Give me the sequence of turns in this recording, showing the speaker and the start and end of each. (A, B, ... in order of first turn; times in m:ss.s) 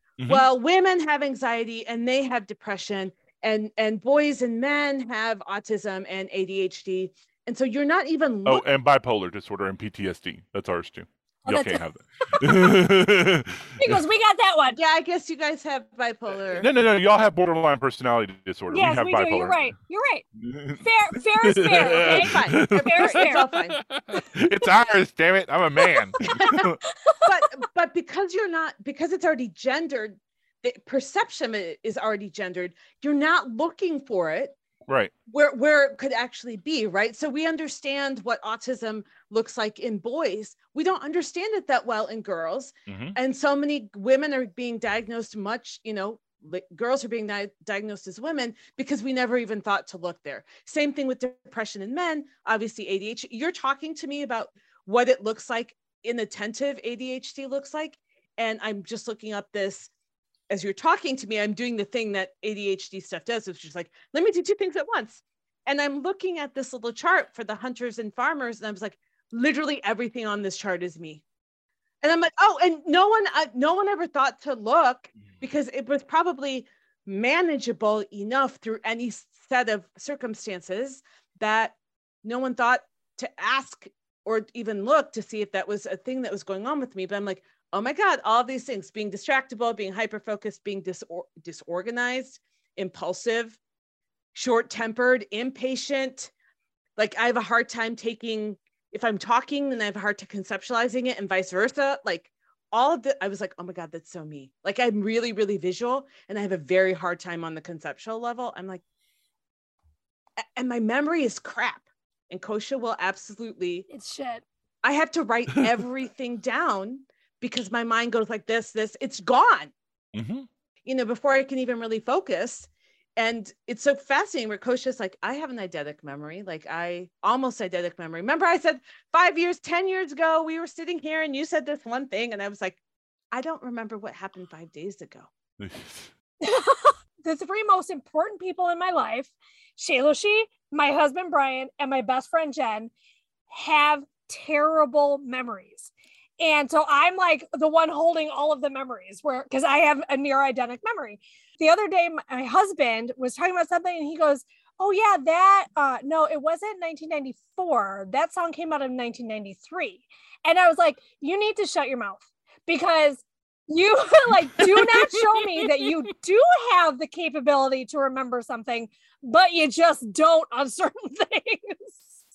0:00.2-0:00.5 A
0:00.2-0:08.7 B
0:08.4-0:14.0 A
0:11.4-0:12.8 C
0:13.8-0:14.8 C
0:14.7-0:16.6 B
0:16.5-0:19.7 A
0:18.7-0:20.2 C
0:20.4-0:26.8 A
0:20.8-0:23.5 C
0:21.8-0:23.8 B
0:25.8-0:27.6 C
0:26.3-0:26.7 B
0:27.2-0:34.6 B
0:34.8-0:35.1 A
0:35.3-0:59.9 B
0:42.9-0:43.2 A
1:00.5-1:11.2 B
1:12.0-1:33.6 B
1:34.3-1:36.3 B
1:37.0-1:48.8 B
1:50.6-1:53.8 B
1:53.9-1:54.4 C
1:54.8-1:59.7 B
2:00.1-2:00.5 A
2:00.8-2:12.8 B
2:13.3-2:15.3 B
2:15.6-2:16.1 A
2:16.4-2:22.9 C
2:23.5-2:52.0 C
2:44.5-2:45.9 A